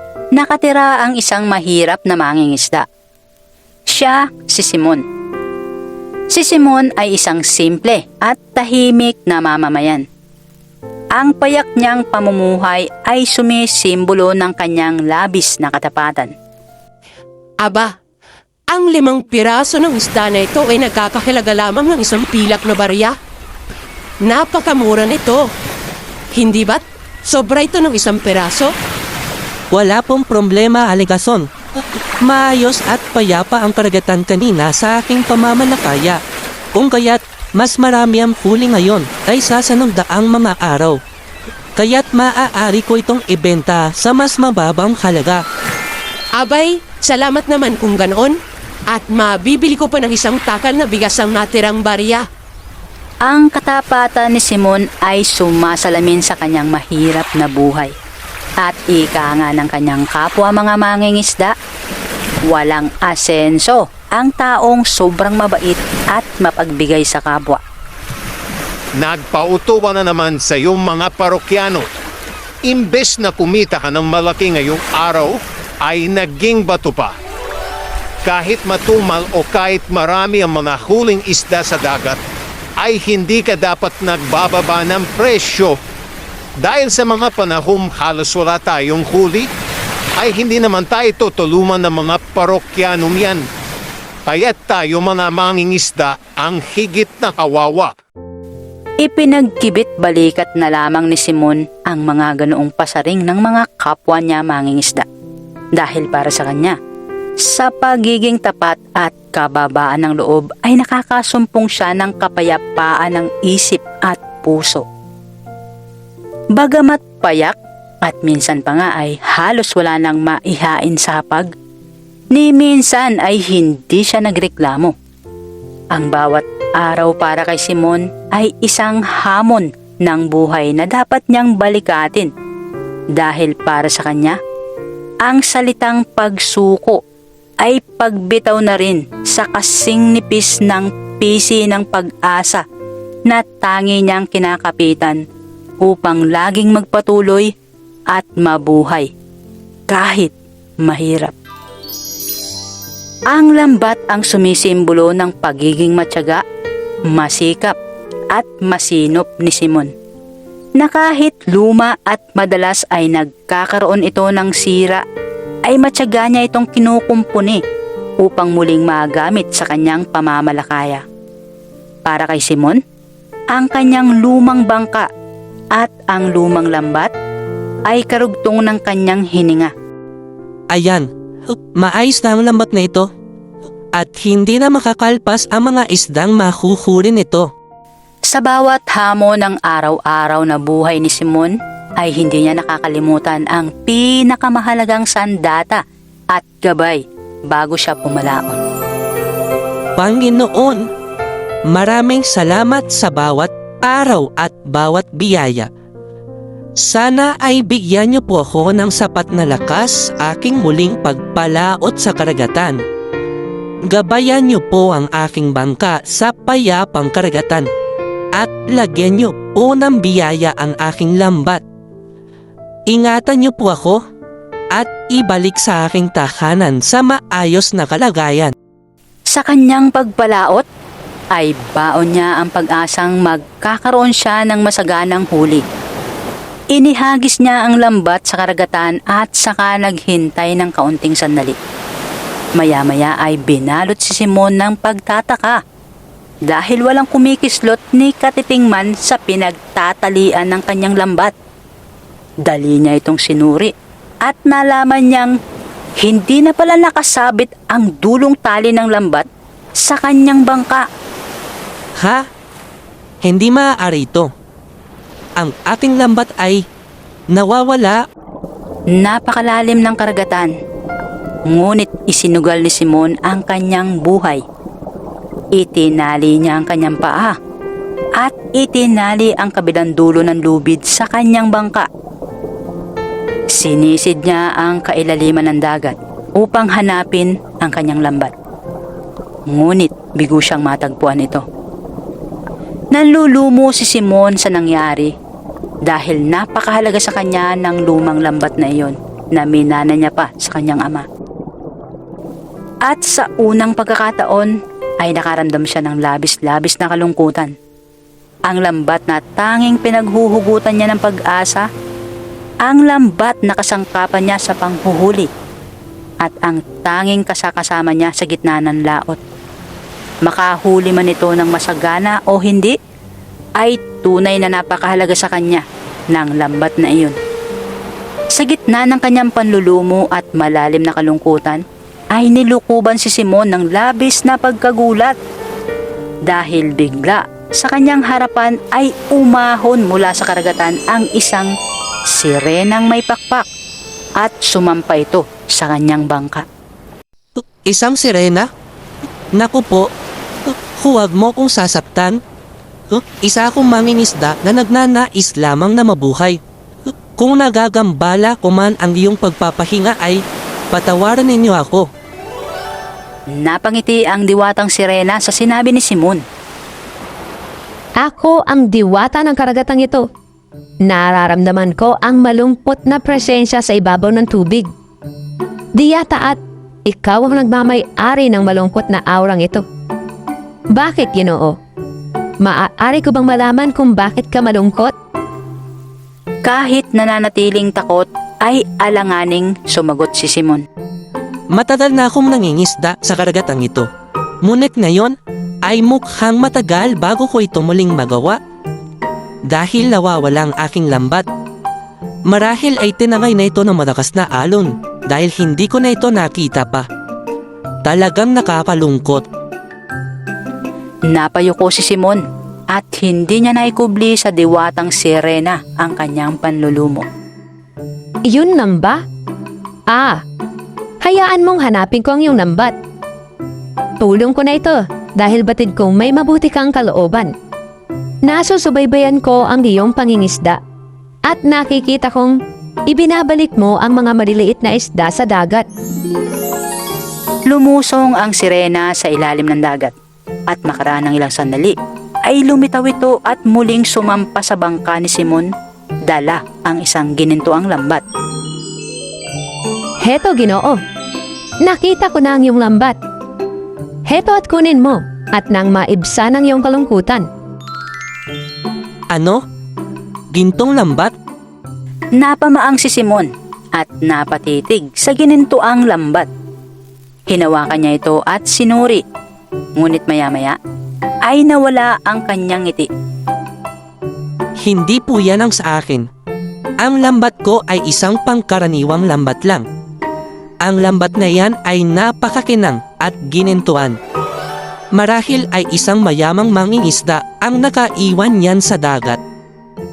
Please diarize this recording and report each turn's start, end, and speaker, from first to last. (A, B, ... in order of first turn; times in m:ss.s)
0:00.4-0:02.8 A
0:03.9-0:05.0 A
0:06.3-0:10.0 A
0:11.1-0:16.3 A
0:17.6-0:17.9 B
0:18.7-0:23.1 B
0:24.2-0:25.5 B
0:26.3-0:28.7 B
0:29.7-0:31.5 C
0:32.2-0:36.2 C
0:36.7-0:41.0 C
0:41.8-0:45.4 C
0:46.3-0:48.4 B
0:48.9-0:52.2 B
0:53.2-0:57.9 A
0:58.6-1:01.5 A
1:02.5-1:07.6 A
1:09.0-1:11.8 D
1:12.6-1:17.1 D
1:18.2-1:22.2 D
1:22.8-1:25.8 D
1:26.6-1:29.5 D
1:30.2-1:33.4 D
1:34.2-1:37.9 D
1:39.0-1:45.0 A
1:45.8-1:46.7 A
1:47.4-1:54.8 A
1:56.6-2:01.5 A
2:02.3-2:04.9 A
2:05.9-2:12.3 A
2:13.1-2:14.4 A
2:15.2-2:17.0 A
2:17.6-2:22.6 A
2:23.3-2:25.2 A
2:25.8-2:27.5 A
2:28.1-2:29.1 A
2:29.9-2:31.3 A
2:33.3-2:36.4 A
2:37.1-2:37.8 A
2:38.3-2:39.9 A
2:40.8-2:45.0 A
2:45.6-2:47.6 A
2:48.2-2:51.0 A
2:52.0-2:52.8 A
2:53.5-2:55.1 A
2:55.7-2:57.1 A
2:57.9-2:59.7 A
3:00.7-3:03.1 C
3:04.0-3:07.5 C
3:08.3-3:15.8 A
3:16.3-3:18.6 A
3:20.0-3:20.9 C
3:21.7-3:25.7 C
3:26.8-3:32.8 C
3:33.9-3:37.7 C
3:38.4-3:41.6 C
3:42.9-3:44.0 C
3:44.7-3:48.5 C
3:49.3-3:50.6 A
3:51.3-3:55.6 A
3:56.7-4:01.6 A
4:02.6-4:05.6 A
4:06.5-4:11.3 A
4:12.4-4:13.7 A
4:14.2-4:15.3 A
4:16.0-4:19.2 A
4:19.8-4:20.8 A
4:23.2-4:24.3 C
4:25.4-4:26.6 C
4:27.3-4:28.0 C
4:28.9-4:30.5 A
4:31.5-4:34.4 A
4:35.6-4:37.3 A
4:38.2-4:41.9 A
4:43.5-4:48.3 A
4:49.5-4:51.4 A
4:52.9-4:55.1 A
4:55.8-5:01.0 A
5:02.8-5:07.5 A
5:08.5-5:11.6 A
5:12.6-5:15.3 A
5:16.2-5:19.2 A
5:20.2-5:22.7 A
5:23.6-5:27.2 A
5:28.3-5:31.6 A
5:32.1-5:35.2 A
5:36.3-5:41.5 A
5:42.1-5:43.5 A
5:44.2-5:46.4 A
5:47.4-5:48.5 C
5:49.3-5:49.9 C
5:50.4-5:52.2 C
5:52.9-5:56.4 C
5:57.2-6:01.9 C
6:03.3-6:06.2 A
6:08.0-6:10.0 E
6:10.9-6:14.7 E
6:15.8-6:19.6 E
6:20.7-6:21.6 E
6:22.4-6:24.9 E
6:26.4-6:30.6 A
6:31.5-6:33.9 C
6:34.4-6:38.4 C
6:39.5-6:41.2 C
6:42.3-6:46.8 C
6:47.8-6:49.2 C
6:51.1-6:52.2 A
6:52.7-6:57.0 A
6:58.3-6:59.0 E
6:59.9-7:00.2 E
7:01.0-7:02.8 E
7:04.0-7:07.3 E
7:08.3-7:10.6 E
7:11.3-7:12.3 E
7:12.9-7:15.6 E
7:17.5-7:19.9 A
7:20.5-7:21.7 A
7:22.2-7:25.5 A
7:26.1-7:28.0 A
7:30.0-7:30.8 E
7:31.6-7:33.0 E
7:34.1-7:37.2 E
7:39.1-7:39.4 C
7:40.3-7:41.1 C
7:42.2-7:46.3 A
7:47.3-7:49.0 A
7:49.8-7:50.6 A
7:51.2-7:52.9 A
7:54.6-7:56.1 C
7:56.8-7:59.6 C
8:00.6-8:04.0 C
8:04.9-8:09.2 C